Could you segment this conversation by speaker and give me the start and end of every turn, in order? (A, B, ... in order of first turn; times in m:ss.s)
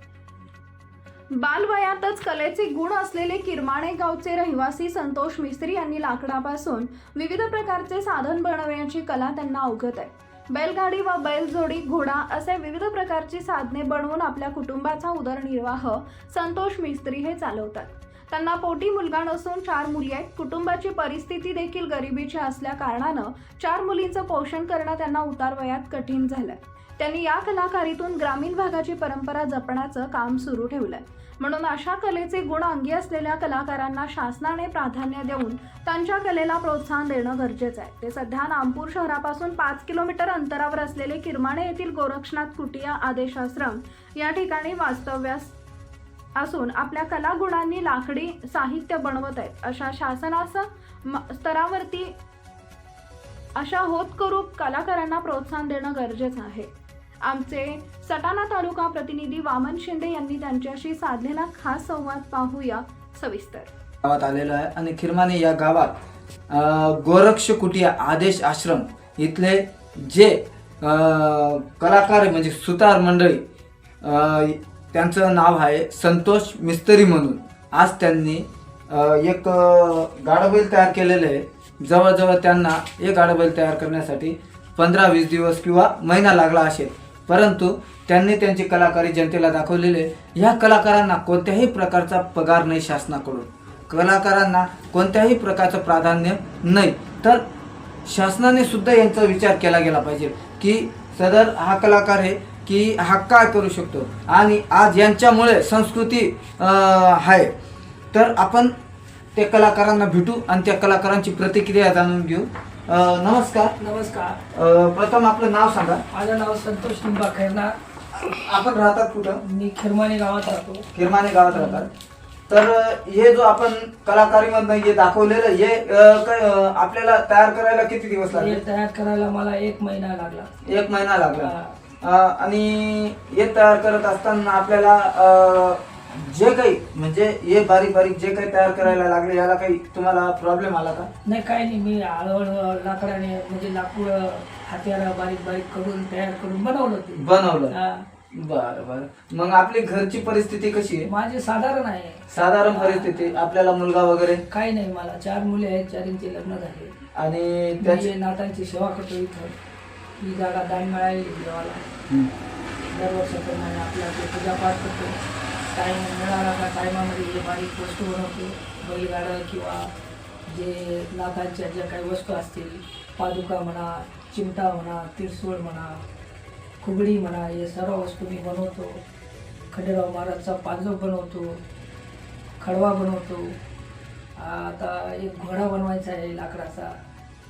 0:01.4-0:45.5 A
0:46.4-0:52.1 A
0:53.6-0:56.7 A
0:57.2-1:03.7 A
1:04.0-1:05.9 B
1:06.5-1:13.4 B
1:14.0-1:37.4 B
1:38.0-1:47.5 B
1:48.1-1:48.7 B
1:49.3-1:53.7 B
1:53.8-1:54.4 C
1:54.5-1:56.0 B
1:56.1-1:57.7 C
1:58.2-1:59.4 B
1:59.4-2:00.9 C
2:00.9-2:01.9 B
2:01.5-2:01.9 C
2:02.5-2:08.6 B
2:08.3-2:10.5 C
2:10.6-2:21.1 B
2:11.3-2:11.8 C
2:21.2-2:28.0 C
2:27.1-2:27.7 B
2:28.3-2:31.1 B
2:31.0-2:33.3 C
2:32.3-2:34.4 B
2:34.5-2:36.9 C
2:37.2-2:38.1 B
2:37.8-2:39.6 C
2:40.2-2:41.8 C
2:42.9-2:45.2 C
2:45.7-2:49.9 C
2:50.5-2:56.0 C
2:56.8-2:59.0 C
2:59.7-3:01.6 C
3:02.6-3:03.6 C
3:04.4-3:07.0 C